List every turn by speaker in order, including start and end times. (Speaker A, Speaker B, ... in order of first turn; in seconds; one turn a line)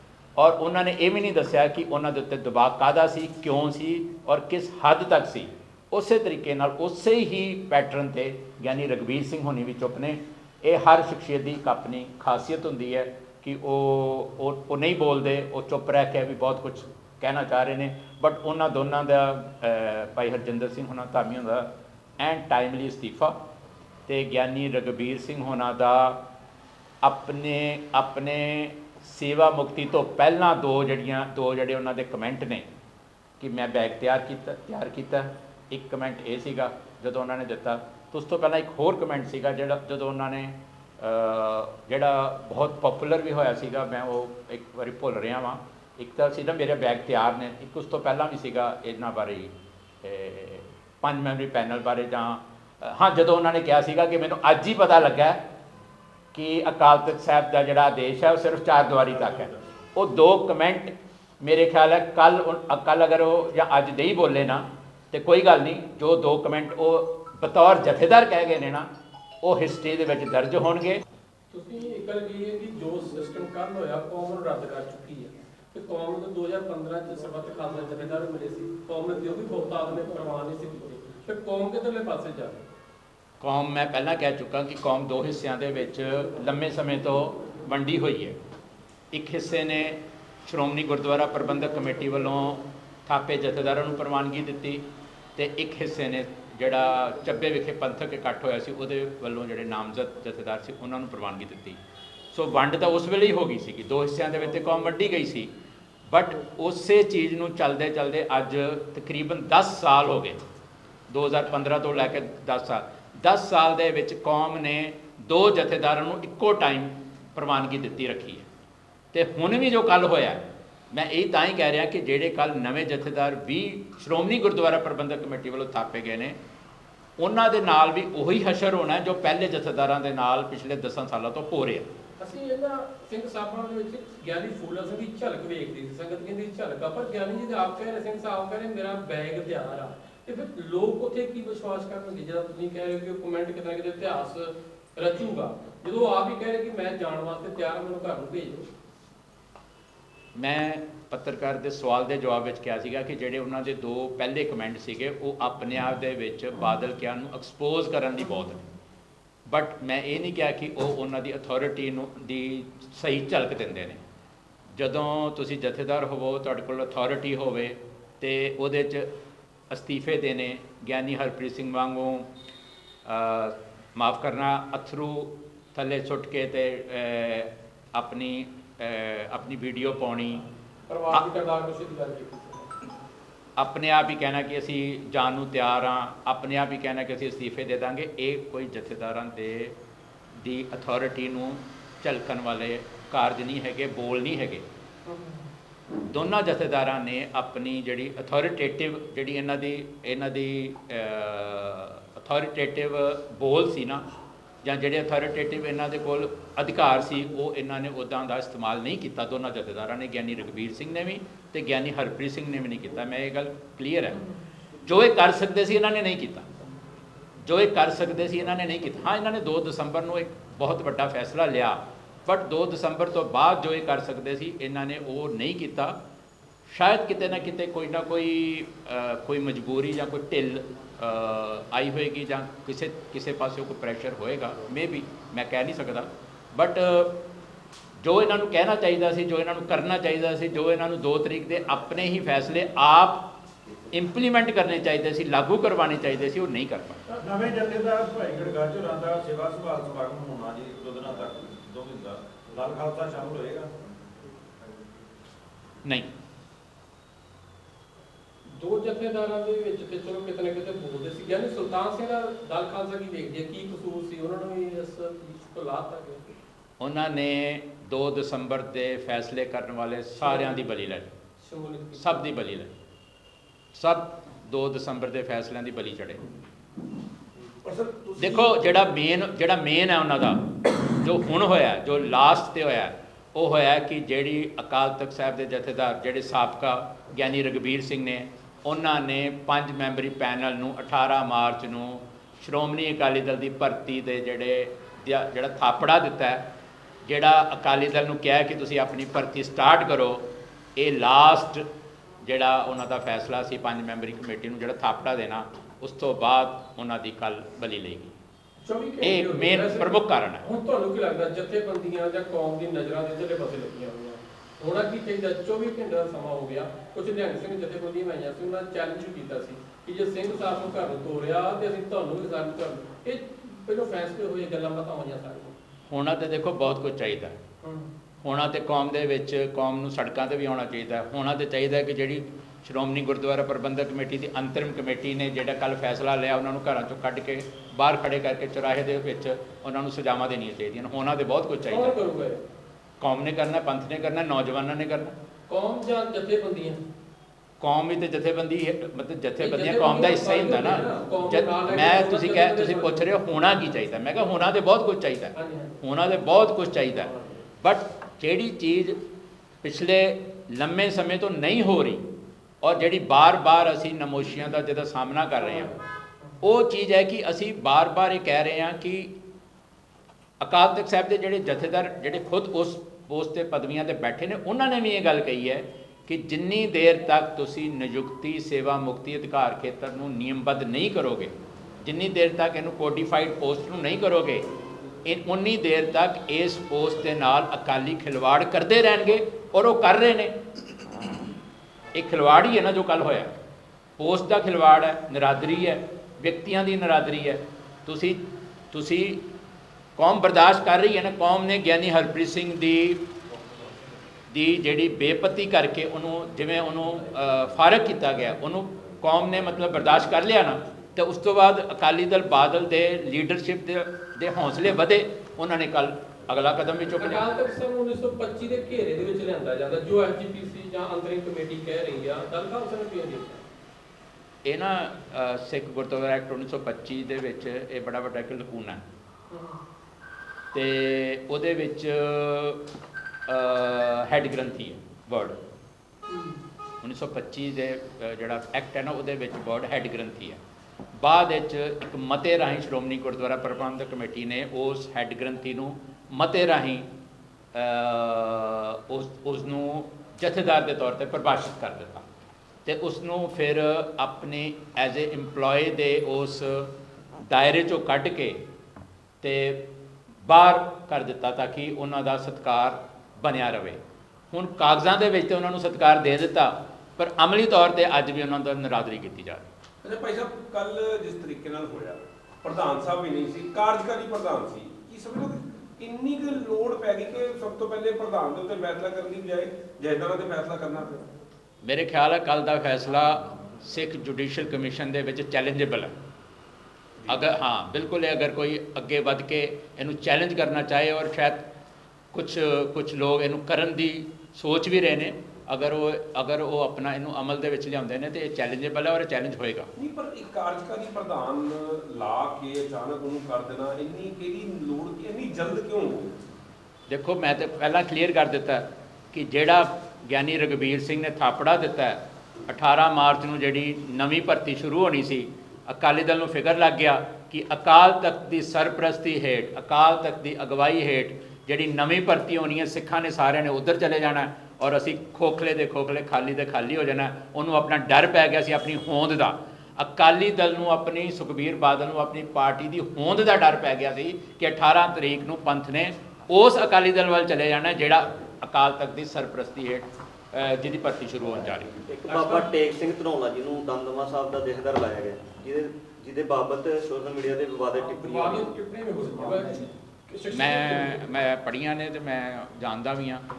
Speaker A: 0.4-23.4
Speaker A: 24.1-26.2
Speaker A: 27.0-32.7
Speaker A: 33.4-55.4
Speaker A: 56.3-68.9
Speaker A: 69.4-71.0
Speaker B: 71.5-82.6
Speaker A: 83.4-88.4
Speaker A: 89.1-94.8
Speaker A: 95.4-101.8
Speaker A: 102.3-105.5
Speaker A: 106.1-110.4
Speaker A: 111.1-118.5
Speaker A: 119.1-126.4
Speaker A: 127.2-131.9
Speaker B: 132.2-148.7
Speaker A: 150.3-158.7
Speaker A: 159.5-164.0
Speaker A: 164.8-169.1
Speaker A: 169.7-172.3
Speaker A: 173.1-180.4
Speaker B: 180.9-182.7
Speaker A: 183.6-189.8
Speaker A: 190.4-194.7
Speaker B: 195.1-195.5
Speaker A: 196.0-204.1
Speaker A: 204.6-214.3
Speaker A: 214.8-216.5
Speaker A: 217.4-226.0
Speaker A: 226.7-237.2
Speaker A: 238.0-243.3
Speaker A: 243.9-247.0
Speaker C: 247.2-253.7
Speaker A: 255.8-256.1
Speaker B: 258.5-266.4
Speaker A: 266.8-271.1
Speaker B: 270.2-270.6
Speaker B: 271.4-272.3
Speaker A: 272.0-272.8
Speaker A: 273.7-276.2
Speaker D: 277.6-278.6
Speaker A: 278.2-296.5
Speaker A: 297.0-301.7
Speaker A: 302.2-308.1
Speaker B: 308.6-325.6
Speaker A: 309.0-310.5
Speaker A: 325.9-327.4
Speaker B: 327.6-327.9
Speaker A: 328.2-342.0
Speaker B: 341.7-342.4
Speaker A: 343.0-345.2
Speaker B: 345.5-346.8
Speaker A: 347.6-359.0
Speaker B: 349.4-353.1
Speaker B: 355.4-355.8
Speaker A: 359.6-362.1
Speaker A: 362.6-365.7
Speaker B: 365.4-366.4
Speaker A: 366.4-369.1
Speaker A: 370.4-384.5
Speaker A: 385.0-390.4
Speaker A: 391.9-393.4
Speaker A: 394.0-399.2
Speaker A: 400.0-403.1
Speaker A: 404.3-417.3
Speaker B: 417.0-423.5
Speaker A: 424.4-428.9
Speaker B: 429.3-429.6
Speaker A: 430.5-432.6
Speaker A: 433.3-435.4
Speaker B: 436.1-436.4
Speaker A: 436.8-440.4
Speaker A: 441.0-446.9
Speaker A: 447.5-452.1
Speaker A: 452.7-456.7
Speaker A: 457.3-458.4
Speaker A: 459.2-459.7
Speaker A: 460.2-469.5
Speaker D: 469.8-481.1
Speaker A: 481.6-485.9
Speaker A: 487.1-491.5
Speaker A: 492.1-499.7
Speaker D: 499.8-506.2
Speaker A: 506.9-541.8
Speaker E: 541.9-548.6
Speaker B: 547.7-551.0
Speaker E: 549.2-549.5
Speaker A: 550.3-553.2